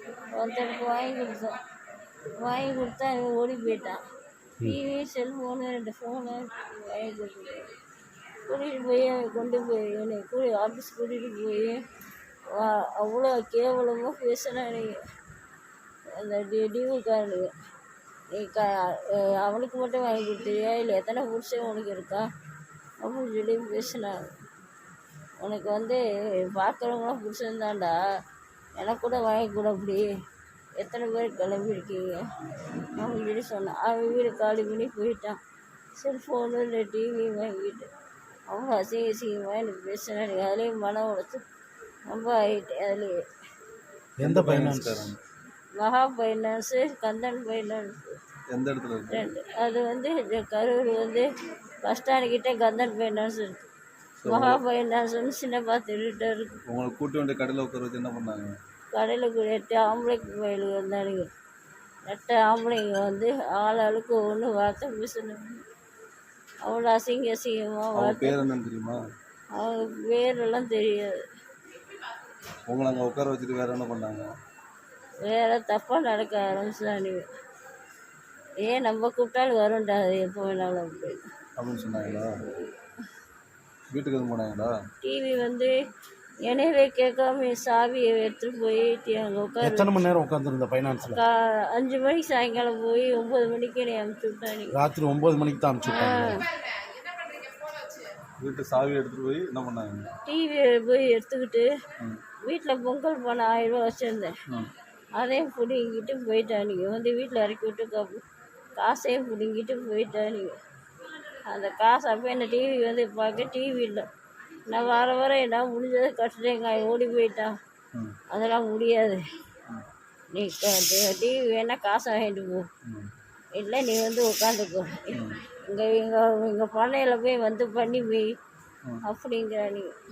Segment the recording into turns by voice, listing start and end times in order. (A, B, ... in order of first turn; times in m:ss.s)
0:00.3-0:01.6 A
0:02.4-0:04.0 A
0:04.6-0:07.6 A
0:08.5-0:11.8 A
0:12.5-0:15.0 A
0:16.2-0:17.5 A
0:18.3-0:22.2 A
0:23.0-0:24.2 A
0:25.4-0:26.0 A
0:26.5-0:28.0 A
0:28.8-0:30.1 A
0:30.8-0:32.2 A
0:33.0-0:35.4 A
0:36.0-0:37.9 A
0:38.5-0:41.4 A
0:42.1-0:43.2 A
0:44.2-0:45.1 B
0:44.2-0:45.2 C
0:45.8-0:48.1 A
0:48.5-0:49.3 C
0:49.1-0:51.3 A
0:51.8-0:53.7 A
0:54.2-0:54.6 C
0:54.2-0:56.5 A
0:56.7-0:58.5 C
0:58.9-1:01.3 A
1:02.1-1:05.5 A
1:06.6-1:08.4 A
1:08.0-1:09.0 C
1:09.6-1:11.2 A
1:12.7-1:14.3 C
1:15.3-1:17.2 A
1:18.6-1:21.2 A
1:21.6-1:22.3 C
1:23.9-1:24.7 C
1:25.0-1:25.7 A
1:26.4-1:29.9 A
1:29.6-1:31.2 B
1:31.1-1:34.7 A
1:34.7-1:36.4 B
1:35.9-1:36.4 A
1:38.4-1:40.1 C
1:40.2-1:41.7 A
1:42.4-1:44.3 A
1:45.2-1:48.2 A
1:48.8-1:50.5 A
1:51.5-1:54.0 A
1:54.7-1:57.5 A
1:58.3-1:59.2 A
2:00.3-2:02.6 A
2:03.6-2:08.3 A
2:05.1-2:05.4 C
2:09.0-2:09.9 A